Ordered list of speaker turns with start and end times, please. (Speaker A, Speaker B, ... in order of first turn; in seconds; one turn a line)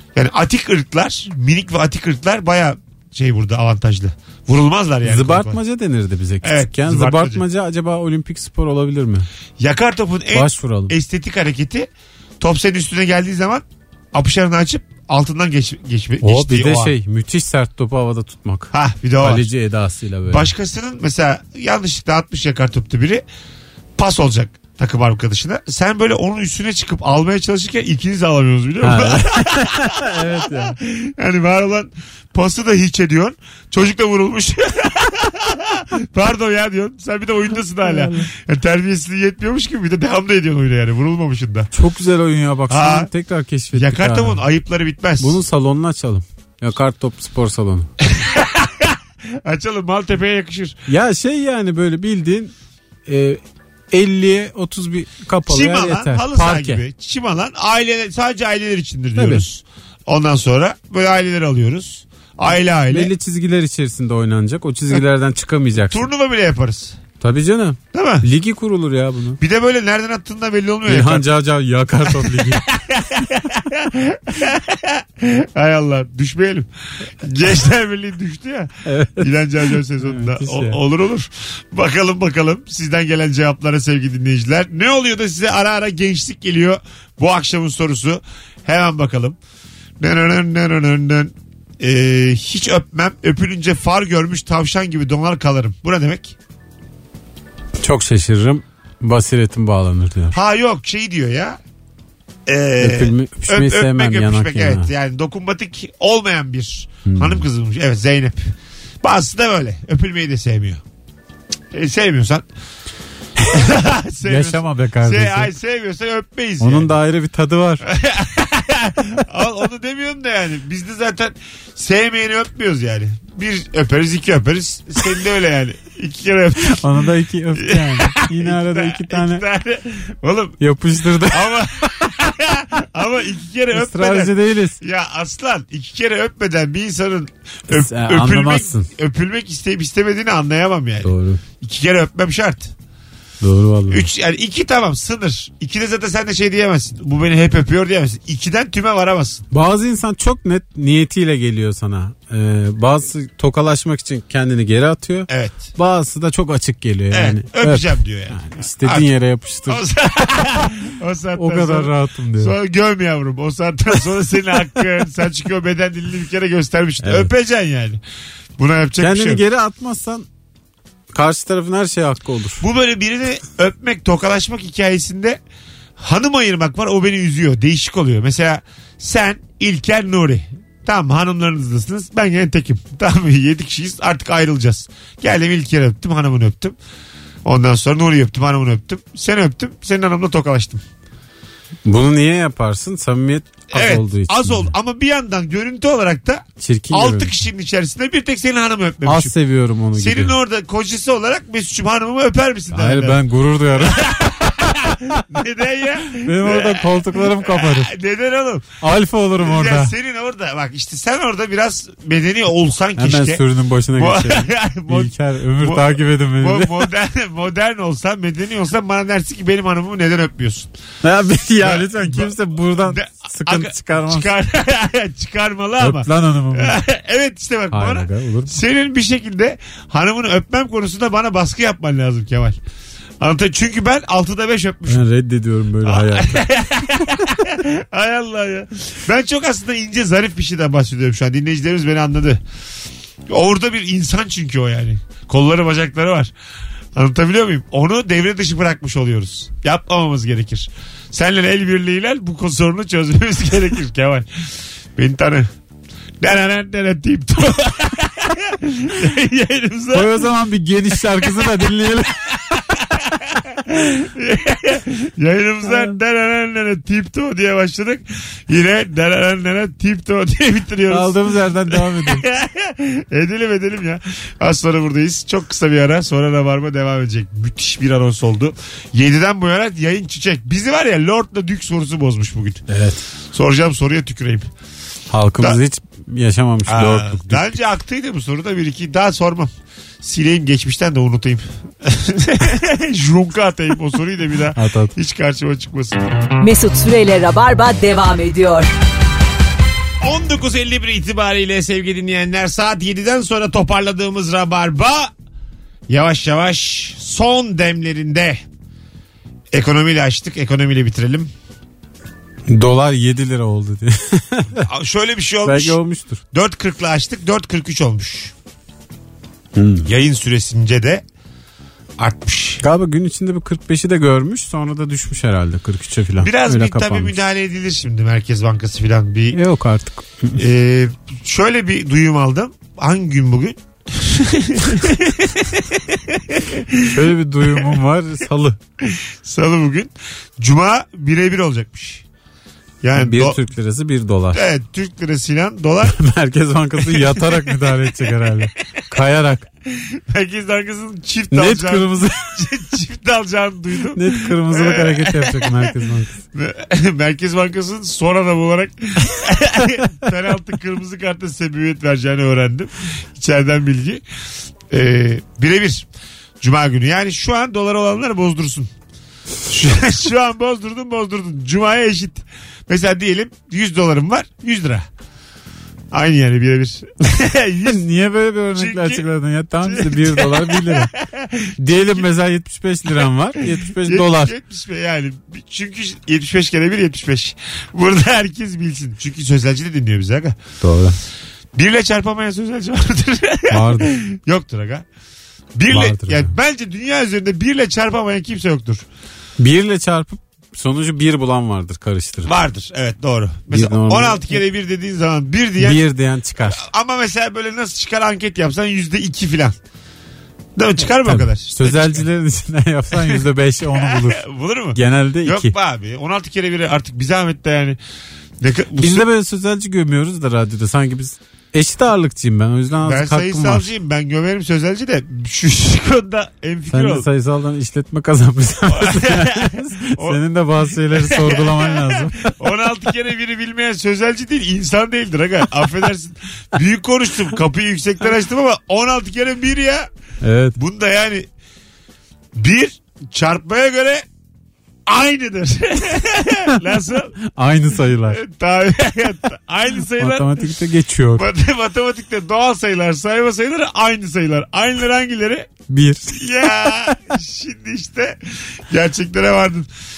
Speaker A: 0.1-5.6
Speaker B: 5.0-9.3
Speaker A: 6.4-7.4
Speaker A: 9.6-11.9
Speaker B: 10.3-10.9
Speaker A: 12.4-16.9
Speaker B: 16.2-20.5
Speaker A: 18.7-19.5
Speaker A: 20.3-23.2
Speaker A: 24.0-41.7
Speaker B: 28.8-30.8
Speaker B: 37.8-38.3
Speaker B: 41.7-44.4
Speaker A: 42.7-43.1
Speaker A: 43.7-45.4
Speaker B: 45.2-47.9
Speaker A: 48.0-50.8
Speaker B: 50.9-52.5
Speaker B: 53.1-56.8
Speaker A: 55.5-63.1
Speaker B: 59.1-59.4
Speaker B: 62.9-66.1
Speaker A: 65.9-67.0
Speaker B: 67.2-69.4
Speaker A: 67.9-68.3
Speaker A: 69.4-71.3
Speaker B: 70.8-72.7
Speaker A: 72.0-89.4
Speaker B: 78.8-80.8
Speaker A: 90.0-96.3
Speaker B: 97.8-100.4
Speaker A: 100.3-101.6
Speaker A: 102.5-110.8
Speaker B: 102.8-104.9
Speaker B: 107.0-107.4
Speaker A: 111.7-112.5
Speaker A: 113.4-116.9
Speaker B: 114.2-115.5
Speaker B: 116.6-117.9
Speaker A: 117.8-127.0
Speaker B: 126.6-129.4
Speaker A: 127.5-130.6
Speaker B: 130.6-131.7
Speaker A: 131.2-142.7
Speaker B: 133.7-134.8
Speaker B: 137.7-138.9
Speaker B: 141.0-141.4
Speaker B: 143.4-144.1
Speaker A: 143.9-149.4
Speaker B: 149.5-159.8
Speaker A: 155.3-155.7
Speaker A: 157.1-159.1
Speaker A: 159.7-168.0
Speaker B: 161.3-162.5
Speaker B: 167.0-167.3
Speaker A: 168.6-169.4
Speaker B: 169.0-170.2
Speaker B: 171.1-172.7
Speaker A: 172.6-175.4
Speaker A: 176.0-186.8
Speaker A: 187.4-190.8
Speaker B: 191.8-194.7
Speaker A: 193.7-199.3
Speaker B: 196.6-197.3
Speaker B: 199.0-200.3
Speaker A: 199.9-203.2
Speaker B: 202.7-204.2
Speaker A: 203.7-208.7
Speaker B: 204.9-205.2
Speaker B: 206.2-207.9
Speaker B: 208.8-209.9
Speaker A: 209.4-213.4
Speaker B: 213.0-216.9
Speaker A: 213.9-220.7
Speaker B: 221.0-224.3
Speaker A: 221.6-232.6
Speaker B: 225.8-226.8
Speaker B: 227.7-228.6
Speaker A: 233.2-235.0
Speaker B: 234.9-236.4
Speaker A: 235.8-242.4
Speaker B: 237.0-237.4
Speaker A: 243.3-246.3
Speaker A: 246.9-254.3
Speaker A: 254.9-255.5
Speaker A: 256.2-260.2
Speaker B: 259.9-262.3
Speaker A: 262.5-282.6
Speaker B: 270.9-272.2
Speaker B: 282.7-283.0
Speaker A: 283.3-284.5
Speaker B: 285.1-287.6
Speaker A: 286.7-296.1
Speaker B: 294.5-294.9
Speaker C: 296.4-298.7
Speaker A: 300.0-305.1
Speaker A: 305.9-308.4
Speaker A: 309.5-311.3
Speaker B: 312.5-314.6
Speaker A: 314.6-315.8
Speaker B: 315.4-316.2
Speaker A: 316.3-318.3
Speaker B: 319.5-319.9
Speaker A: 319.8-321.0
Speaker A: 322.0-322.6
Speaker B: 322.6-327.2
Speaker A: 326.2-329.4
Speaker B: 329.3-330.4
Speaker A: 330.3-337.8
Speaker B: 336.9-338.6
Speaker A: 338.8-342.0
Speaker A: 342.8-343.4
Speaker B: 342.9-344.4
Speaker A: 344.3-346.0
Speaker B: 345.9-349.4
Speaker A: 346.8-347.7
Speaker A: 349.7-355.8
Speaker B: 351.3-352.3
Speaker B: 353.9-356.2
Speaker A: 356.3-364.0
Speaker A: 364.7-365.9
Speaker A: 366.4-368.7
Speaker A: 369.4-374.9
Speaker A: 375.9-377.8
Speaker B: 377.6-380.9
Speaker A: 378.5-379.1
Speaker A: 379.6-382.1
Speaker B: 381.6-384.4
Speaker A: 383.4-390.4
Speaker B: 390.6-391.0
Speaker A: 391.5-394.8
Speaker B: 393.5-394.0
Speaker A: 395.6-398.8
Speaker B: 395.7-396.3
Speaker B: 399.4-402.3
Speaker A: 402.2-405.8
Speaker B: 403.5-404.4
Speaker B: 405.6-406.6
Speaker A: 406.4-409.6
Speaker A: 410.6-412.0
Speaker B: 411.0-415.5
Speaker A: 412.9-417.8
Speaker A: 418.4-419.1
Speaker B: 418.8-423.7
Speaker A: 422.8-427.1
Speaker B: 426.7-432.4
Speaker A: 428.7-439.9
Speaker B: 440.2-440.6
Speaker A: 440.6-441.3
Speaker A: 442.3-444.0
Speaker A: 444.9-447.1
Speaker B: 447.2-448.2
Speaker A: 448.1-450.5
Speaker B: 449.9-451.2
Speaker A: 451.1-455.5
Speaker B: 455.7-456.9
Speaker A: 456.1-459.7